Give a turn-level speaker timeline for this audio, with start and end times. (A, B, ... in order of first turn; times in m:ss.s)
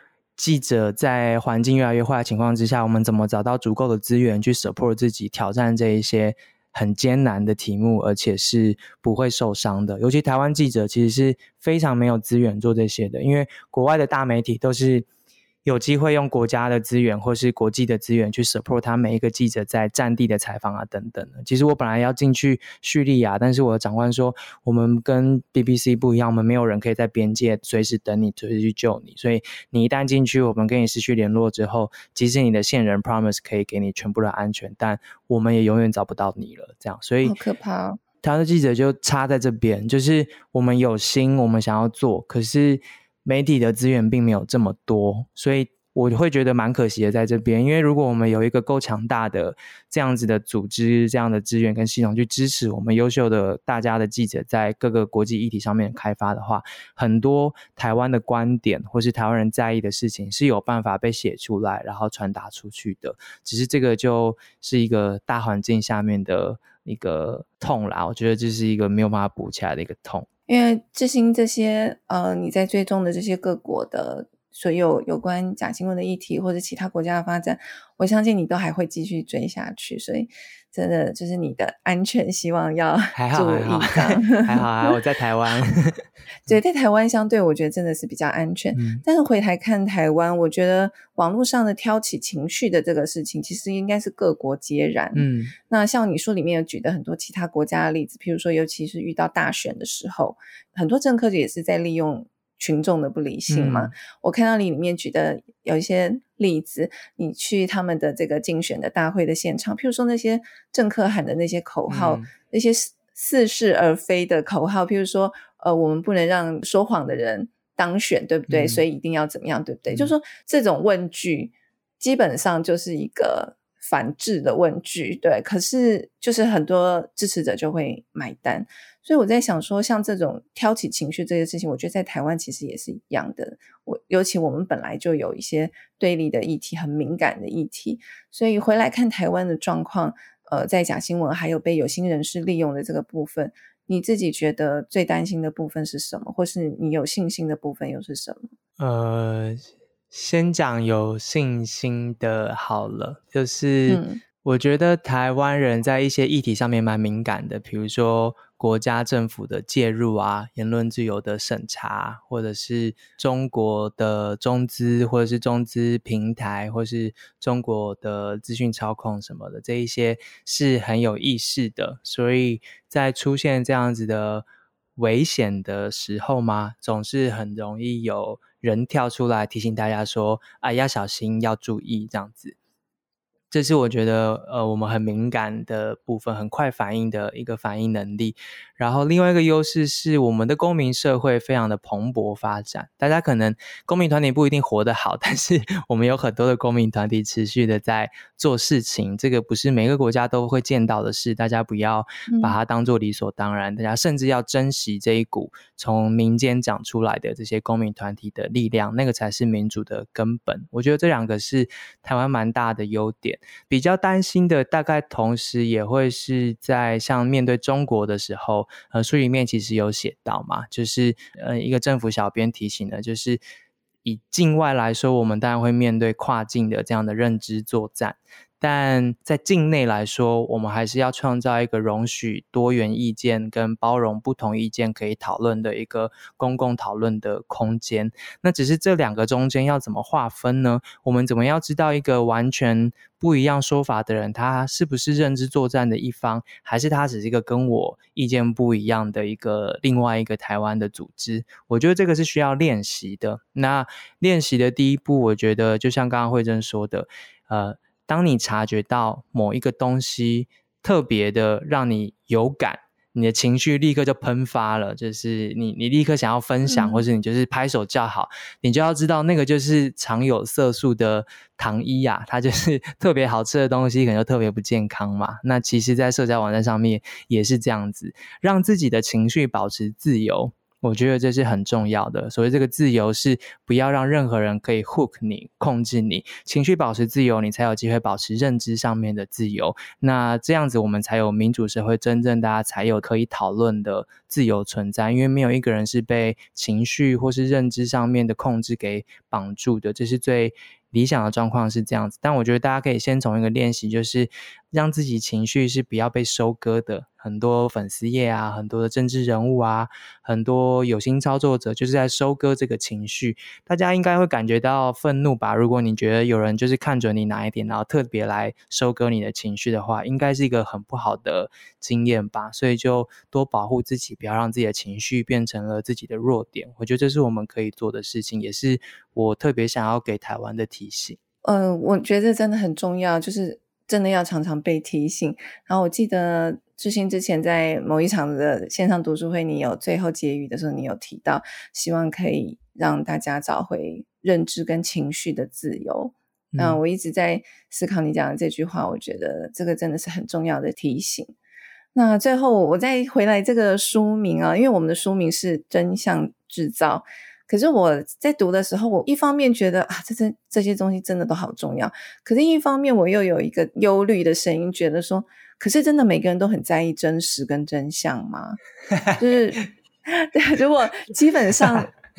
0:00.4-0:15.0 A
0:15.6-0:37.4 A
0:37.2-0:38.0 B
0:38.2-1:10.3 A
1:10.5-1:24.6 B
1:23.1-1:26.5 A
1:26.4-2:28.5 B
1:28.7-1:29.0 A
1:35.1-1:35.5 A
1:43.5-1:43.9 A
1:51.9-1:52.3 A
1:58.5-1:58.8 A
2:28.8-2:54.4 A
2:33.9-2:34.2 B
2:55.0-3:02.6 A
3:03.5-3:43.4 A
3:22.3-3:22.6 B
3:44.0-5:31.2 A
4:26.7-4:27.0 B
5:31.4-5:51.3 B
5:46.5-5:46.8 A
5:51.9-6:08.6 B
6:09.2-6:11.9 B